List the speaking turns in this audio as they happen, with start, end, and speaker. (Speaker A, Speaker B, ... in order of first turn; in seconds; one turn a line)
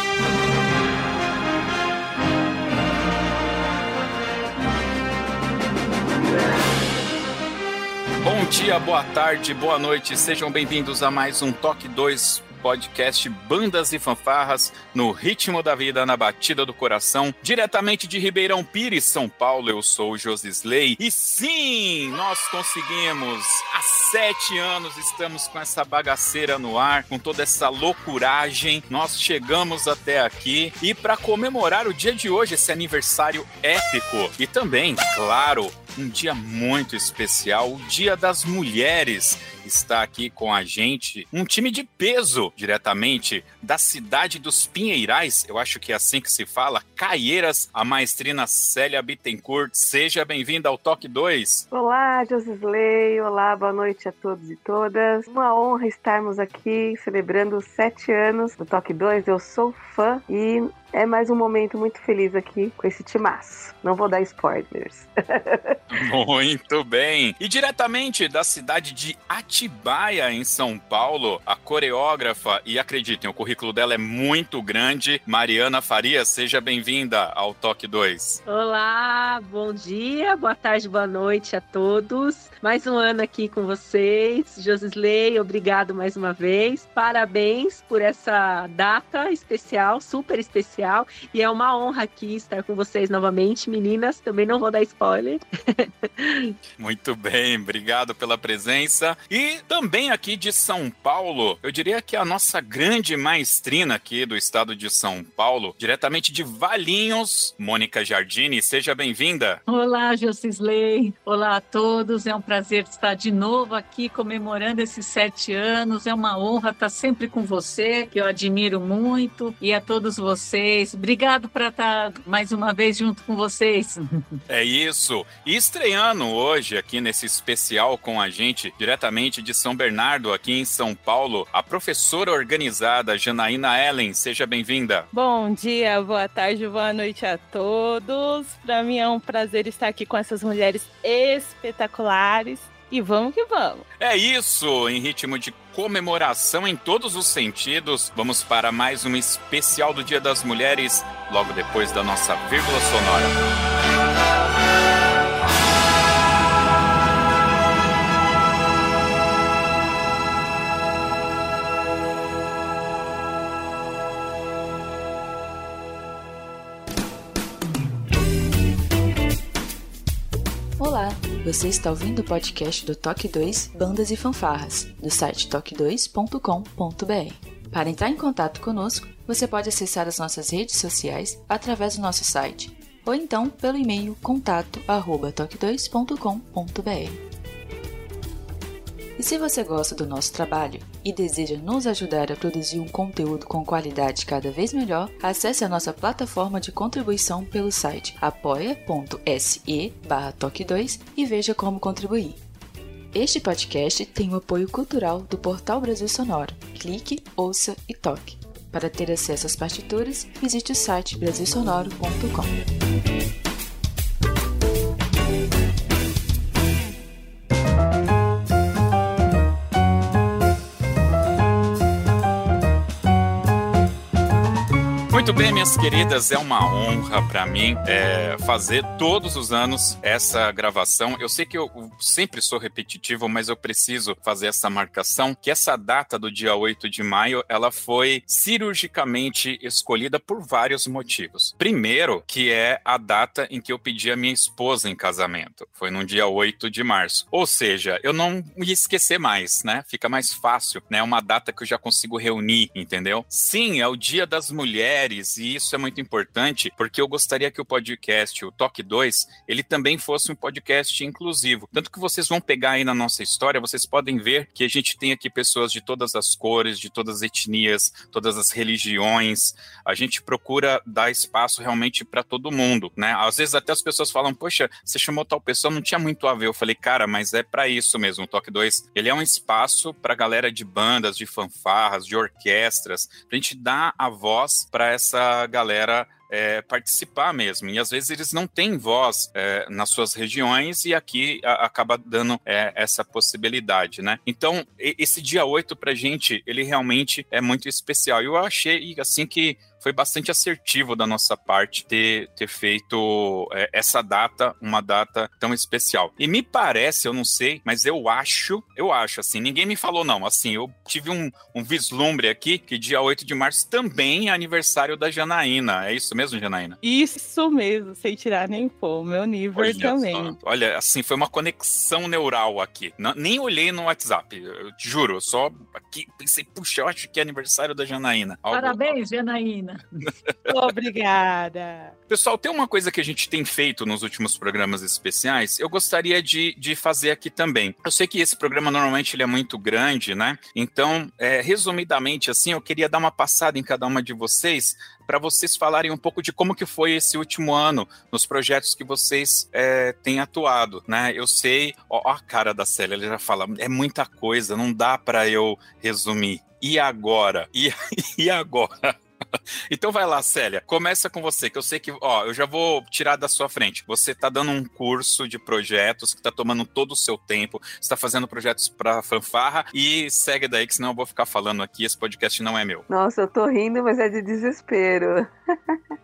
Speaker A: 8.2-51.7
Speaker B: 51.7-65.8
Speaker A: 65.9-78.4
Speaker C: 78.5-96.5
Speaker A: 96.8-109.6
Speaker D: 109.7-124.4
Speaker A: 124.5-135.1
Speaker E: 135.1-143.8
Speaker A: 144.0-153.4
Speaker F: 170.8-187.2
Speaker F: 189.2-202.4
Speaker F: 203.1-212.5
Speaker A: 225.1-316.8
Speaker E: 316.8-320.4
Speaker A: 319.6-328.9
Speaker D: 328.5-330.0
Speaker A: 330.3-330.5
Speaker E: 330.5-331.9
Speaker A: 332.1-358.9
Speaker A: 359.7-372.9
Speaker B: 372.9-375.8